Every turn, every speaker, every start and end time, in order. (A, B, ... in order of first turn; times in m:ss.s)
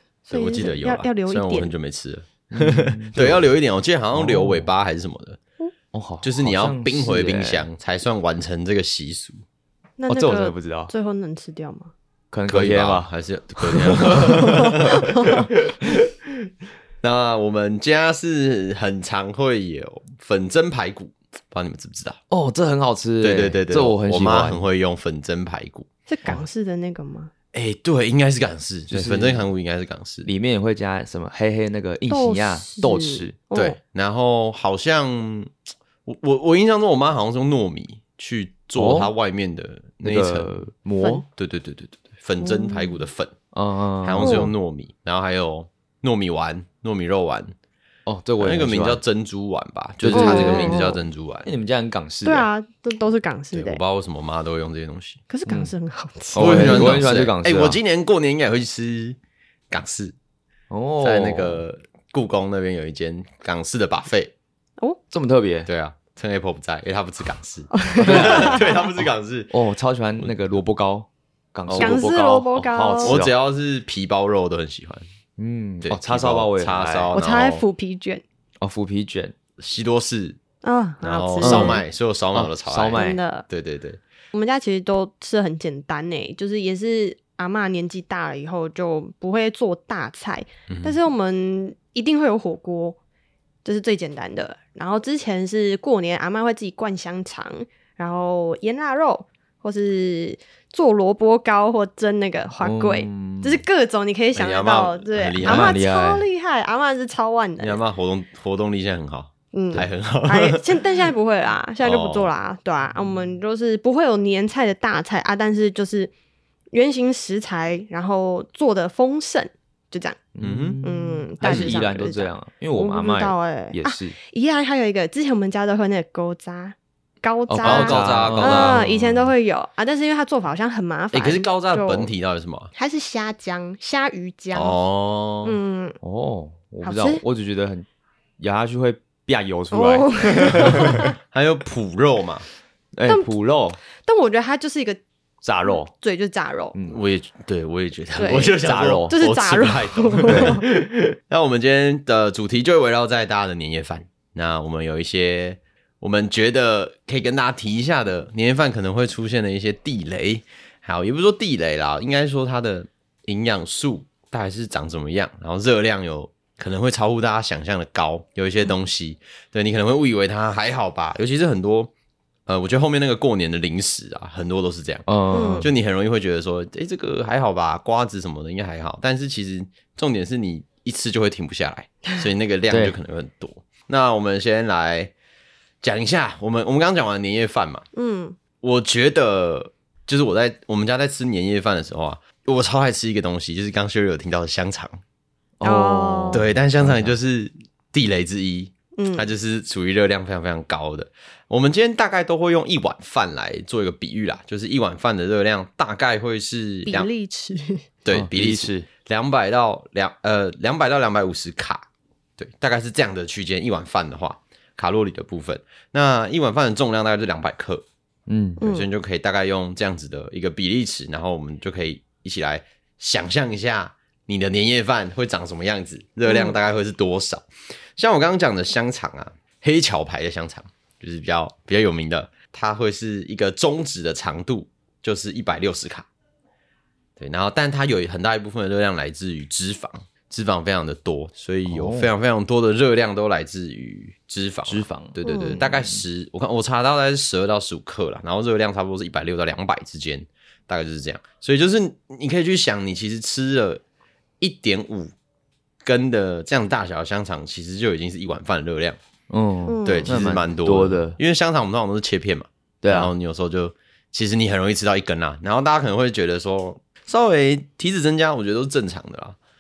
0:00.3-0:01.7 A
0:00.3-0:05.4 B
0:02.5-0:03.4 C
0:04.1-0:04.7 C
0:05.9-0:07.6 C
0:06.2-0:09.4 B
0:10.0-0:11.9 A
0:10.1-0:10.9 C
0:12.3-0:16.0 C
0:12.5-0:15.4 B
0:14.4-0:15.5 A
0:17.0-0:22.2 B
0:22.3-0:24.6 C
0:23.2-0:26.4 B
0:26.1-0:27.3 A
0:27.5-0:30.3 B
0:28.9-0:29.5 C
0:30.3-0:33.4 C
0:32.1-0:33.8 A
0:33.6-0:35.5 B
0:36.1-0:40.5 B
0:38.8-0:39.1 C
0:40.0-0:41.2 C
0:41.3-0:43.3 B
0:42.4-0:43.0 A
0:43.5-0:44.5 C
0:44.0-0:47.5 B
0:44.2-0:44.5 A
0:48.1-0:49.0 C
0:48.4-0:51.5 B
0:50.0-0:50.9 C
0:50.1-0:51.0 A
0:51.4-0:52.5 C
0:52.2-0:53.8 A
0:53.5-0:55.2 B
0:55.3-0:57.0 A
0:55.5-0:55.7 C
0:56.3-0:57.8 C
0:56.4-0:59.2 B
0:59.7-1:00.2 B
1:00.7-1:01.6 C
1:01.0-1:04.3 B
1:05.1-1:05.7 C
1:05.7-1:09.5 B
1:07.7-1:08.8 A
1:08.0-1:08.7 C
1:09.5-1:13.3 C
1:11.7-1:12.1 B
1:11.8-1:13.2 A
1:13.0-1:15.1 B
1:15.4-1:17.1 C
1:15.8-1:17.6 B
1:17.1-1:18.2 A
1:18.6-1:19.3 C
1:19.6-1:20.4 B
1:20.6-1:21.8 A
1:21.0-1:24.0 B
1:21.4-1:21.8 C
1:22.3-1:23.2 C
1:22.9-1:23.5 A
1:24.3-1:33.0 A
1:30.7-1:31.0 B
1:33.6-1:47.8 A
1:42.6-1:43.6 C
1:44.4-1:45.8 B
1:45.4-1:46.2 C
1:47.6-1:51.0 B
1:49.5-1:56.1 A
1:51.8-1:52.3 B
1:56.7-2:00.2 A
2:00.4-2:04.2 C
2:00.4-2:00.8 B
2:00.8-2:12.1 A
2:07.5-2:08.9 C
2:07.6-2:09.3 B
2:11.1-2:12.7 B
2:12.8-2:14.8 A
2:14.5-2:15.6 B
2:15.4-2:16.0 A
2:16.0-2:17.9 C
2:16.8-2:17.2 A
2:18.4-2:21.1 C
2:19.7-2:21.1 A
2:21.2-2:22.4 B
2:23.0-2:23.8 C
2:23.9-2:25.0 A
2:25.4-2:25.9 C
2:25.7-2:26.8 A
2:26.9-2:51.9 B
2:28.2-2:30.6 A
2:28.6-2:29.2 C
2:30.3-2:30.6 C
2:52.5-3:05.1 B
2:55.1-2:55.7 C
2:55.3-2:55.7 A
3:02.7-3:03.0 C
3:05.8-3:07.9 B
3:07.9-3:08.4 A
3:08.6-3:15.0 B
3:15.6-3:17.1 C
3:15.6-3:16.4 A
3:16.3-3:27.1 B
3:19.0-3:19.3 A
3:26.9-3:27.9 A
3:28.0-3:31.8 B
3:28.1-3:28.9 C
3:32.4-3:37.8 B
3:38.3-3:38.6 C
3:38.6-3:56.1 B
3:38.6-3:38.9 A
3:46.3-3:46.6 A
3:57.2-4:13.8 B
4:01.7-4:02.1 C
4:04.7-4:06.0 C
4:05.2-4:05.6 A
4:14.4-4:15.1 B
4:15.8-4:19.0 B
4:19.3-4:21.2 C
4:19.7-4:20.1 A
4:19.8-4:29.4 B
4:22.8-4:23.1 C